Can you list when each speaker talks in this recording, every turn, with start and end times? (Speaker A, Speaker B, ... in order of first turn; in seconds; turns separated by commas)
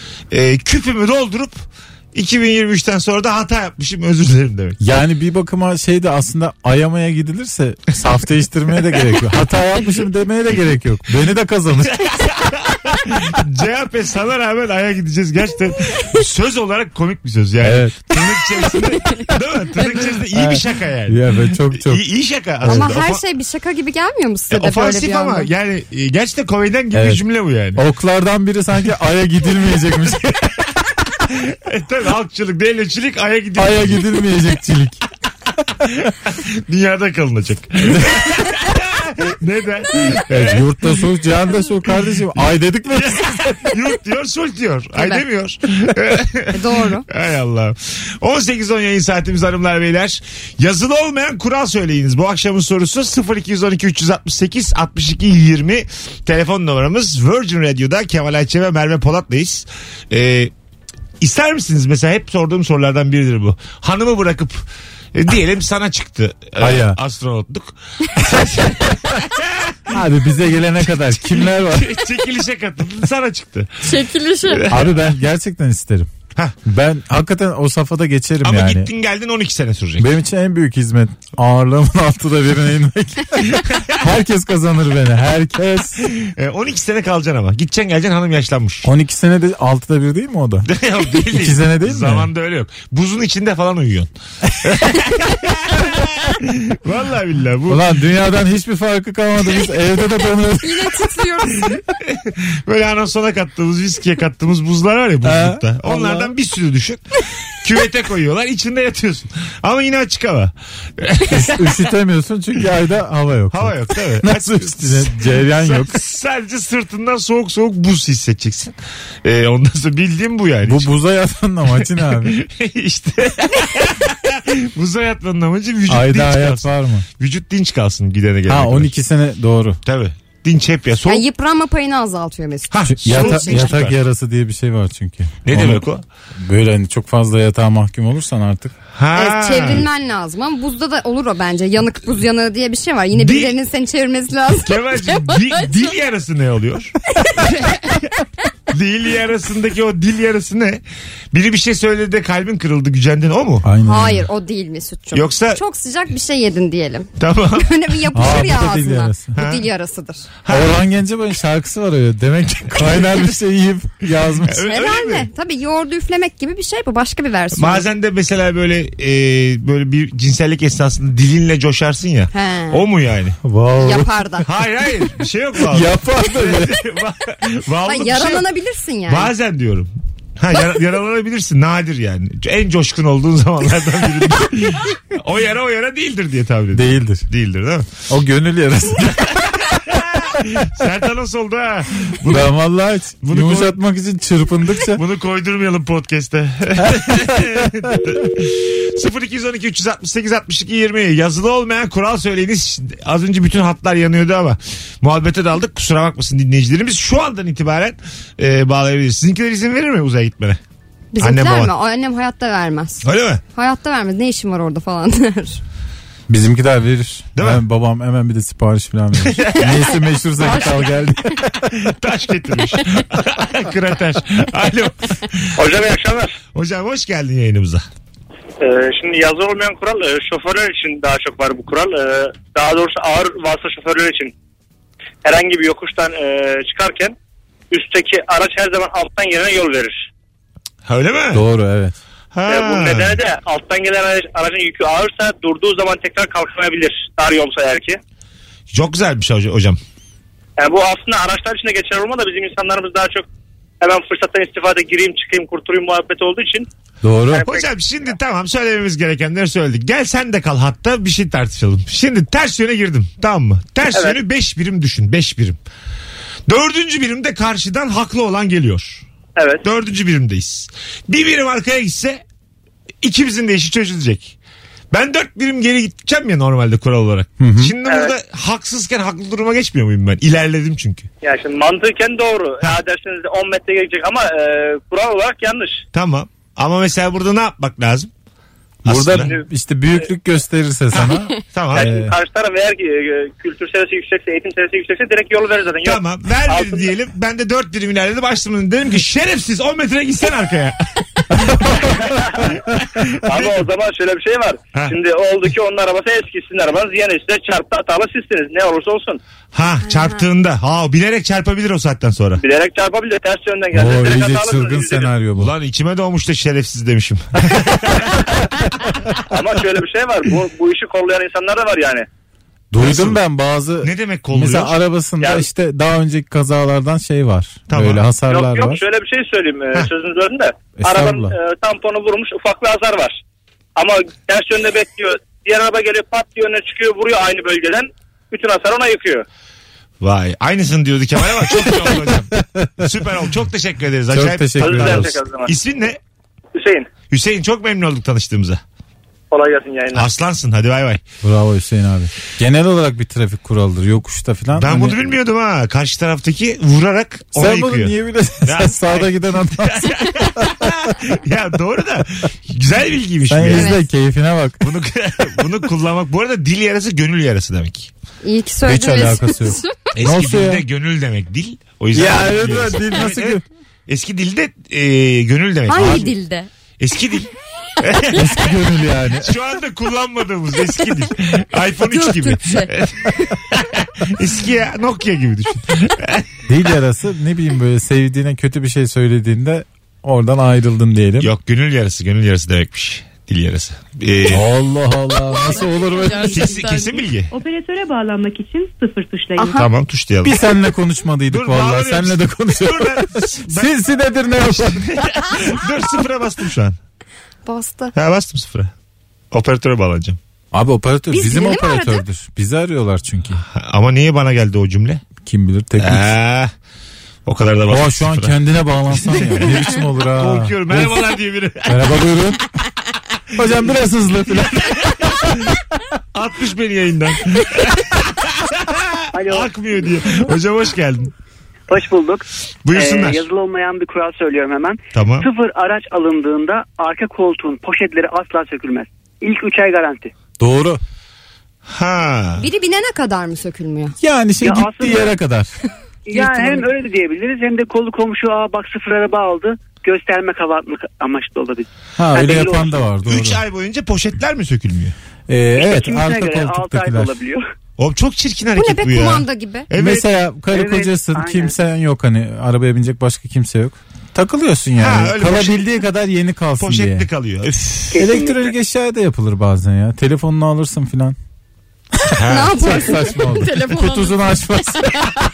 Speaker A: 0.3-4.8, Speaker B: 4.8-12.2, Speaker A: 11.9-23.2, Speaker B: 17.6-18.1, Speaker B: 20.3-22.0, Speaker B: 22.6-22.9, Speaker C: 22.6-25.5, Speaker A: 24.5-27.8, Speaker B: 26.9-27.2, Speaker B: 27.8-30.4, Speaker A: 30.2-34.2, Speaker B: 33.6-35.0, Speaker A: 35.8-40.7, Speaker B: 40.3-43.6, Speaker A: 42.9-60.5, Speaker C: 45.0-45.2, Speaker C: 46.5-47.1, Speaker A: 61.2-69.9, Speaker B: 66.6-67.0, Speaker B: 69.9-71.9, Speaker A: 71.0-75.1, Speaker C: 73.9-74.6, Speaker B: 74.7-76.1, Speaker B: 76.7-78.9, Speaker A: 78.4-80.1, Speaker B: 80.0-86.1, Speaker A: 83.5-84.0, Speaker A: 86.0-88.9, Speaker B: 88.8-90.7, Speaker A: 90.7-94.1, Speaker B: 91.3-92.3, Speaker A: 94.6-97.9, Speaker B: 97.7-101.0, Speaker C: 100.6-101.8, Speaker A: 101.7-111.8, Speaker B: 105.2-106.3, Speaker B: 111.3-116.0, Speaker A: 113.5-120.9, Speaker B: 120.7-122.4, Speaker A: 121.7-128.9, Speaker B: 125.9-127.1, Speaker B: 128.5-129.8, Speaker A: 129.8-131.2, Speaker C: 131.1-133.7, Speaker A: 132.7-134.0, Speaker B: 132.9-135.8, Speaker A: 135.4-136.1, Speaker B: 136.4-138.7, Speaker A: 138.9-139.9, Speaker C: 139.1-145.7, Speaker A: 143.1-143.6, Speaker A: 144.6-148.1, Speaker A: 148.7-153.7, Speaker B: 153.6-154.3, Speaker C: 153.8-160.3, Speaker A: 155.1-155.6, Speaker A: 157.2-157.7, Speaker B: 158.1-159.3, Speaker A: 159.3-159.7, Speaker A: 160.4-160.8, Speaker B: 160.5-164.6, Speaker A: 162.8-163.2, Speaker A: 164.5-165.3, Speaker C: 164.6-167.9, Speaker A: 167.5-173.4, Speaker C: 172.3-172.8, Speaker B: 173.4-174.1, Speaker C: 173.8-174.5, Speaker A: 174.5-178.5, Speaker B: 175.7-176.8, Speaker C: 177.8-179.3, Speaker A: 179.1-187.9, Speaker B: 186.7-187.3, Speaker B: 188.1-189.5, Speaker A: 189.5-192.5, Speaker B: 192.3-195.0, Speaker A: 193.2-193.8, Speaker A: 194.9-210.6, Speaker C: 211.1-215.6, Speaker A: 211.2-211.7, Speaker A: 213.0-213.4, Speaker B: 216.3-221.5, Speaker A: 217.3-217.6, Speaker A: 219.2-219.9, Speaker C: 220.4-220.8, Speaker A: 221.6-225.5, Speaker D: 225.6-226.3, Speaker A: 226.6-227.8, Speaker D: 228.6-234.3, Speaker D: 235.2-237.1, Speaker D: 237.7-240.1, Speaker A: 240.9-241.4, Speaker B: 241.3-242.0, Speaker A: 242.3-243.2, Speaker D: 242.5-248.0, Speaker A: 248.7-249.8, Speaker D: 250.6-253.3, Speaker D: 253.8-256.7, Speaker B: 257.0-257.4, Speaker D: 257.3-257.7, Speaker A: 257.4-265.6, Speaker A: 266.5-269.0, Speaker D: 269.4-269.6, Speaker A: 269.6-272.2, Speaker A: 273.0-274.4, Speaker A: 274.9-281.1, Speaker B: 277.4-277.7, Speaker D: 277.9-278.1, Speaker D: 281.2-285.8, Speaker A: 285.9-288.1, Speaker A: 288.8-289.3, Speaker B: 288.9-292.1, Speaker D: 289.2-289.5, Speaker A: 290.9-291.9, Speaker D: 291.7-296.9, Speaker A: 295.9-300.8, Speaker A: 301.3-303.6, Speaker B: 301.4-301.9, Speaker D: 301.9-302.5, Speaker D: 303.2-309.2, Speaker A: 309.5-312.4, Speaker C: 309.9-310.2, Speaker D: 312.4-315.1, Speaker B: 313.7-315.5, Speaker A: 315.4-318.1, Speaker D: 317.9-318.2, Speaker D: 319.3-322.1, Speaker B: 322.7-328.8, Speaker A: 322.8-323.2, Speaker A: 323.8-324.8, Speaker D: 325.2-325.5, Speaker A: 327.7-328.1, Speaker D: 328.3-333.1, Speaker B: 330.8-331.4, Speaker D: 333.8-339.2, Speaker A: 340.0-346.0, Speaker B: 342.4-342.9, Speaker B: 344.1-345.2, Speaker D: 344.6-345.5, Speaker D: 346.6-346.9, Speaker A: 347.1-348.6, Speaker D: 349.3-350.1, Speaker A: 349.9-351.0, Speaker B: 351.2-355.0, Speaker A: 354.6-363.8, Speaker B: 357.3-360.5, Speaker B: 363.3-364.6, Speaker C: 363.5-363.8, Speaker A: 364.6-367.9, Speaker C: 368.2-369.8, Speaker B: 368.7-370.6, Speaker A: 369.9-376.1, Speaker B: 371.9-373.4, Speaker C: 375.7-376.5, Speaker B: 375.8-376.1, Speaker A: 376.8-378.6, Speaker B: 378.1-379.3, Speaker A: 379.2-386.3, Speaker C: 381.8-382.7, Speaker B: 386.5-391.3, Speaker A: 391.2-394.5, Speaker B: 394.3-396.7, Speaker E: 395.5-399.6, Speaker A: 396.2-397.3, Speaker C: 399.4-399.7, Speaker A: 399.5-400.4, Speaker B: 400.2-405.0, Speaker A: 401.3-403.8, Speaker A: 404.5-406.8, Speaker C: 407.5-407.9, Speaker A: 407.9-408.7, Speaker A: 409.3-410.2, Speaker B: 410.5-413.4, Speaker C: 411.1-412.0, Speaker A: 413.5-415.0, Speaker B: 415.2-416.2, Speaker A: 415.8-416.5, Speaker A: 417.3-422.0, Speaker B: 417.7-421.0, Speaker B: 421.7-422.4, Speaker B: 423.4-424.8, Speaker A: 424.6-425.3, Speaker A: 426.1-431.1, Speaker F: 429.1-429.5, Speaker F: 431.7-440.1, Speaker A: 432.6-433.2, Speaker A: 434.9-435.3, Speaker B: 440.4-440.8, Speaker A: 441.7-442.5, Speaker C: 442.4-444.0, Speaker B: 444.0-445.5, Speaker F: 444.4-445.1, Speaker F: 446.1-452.8, Speaker B: 446.1-446.6, Speaker B: 452.0-453.4, Speaker A: 453.0-454.9, Speaker B: 455.3-457.1, Speaker F: 455.6-457.4, Speaker A: 457.8-460.1, Speaker C: 458.6-459.7, Speaker B: 459.8-467.1, Speaker F: 460.5-461.5, Speaker A: 464.8-465.7, Speaker A: 466.6-467.9, Speaker B: 467.9-471.2, Speaker B: 472.1-475.0, Speaker A: 472.1-472.9, Speaker C: 472.3-474.3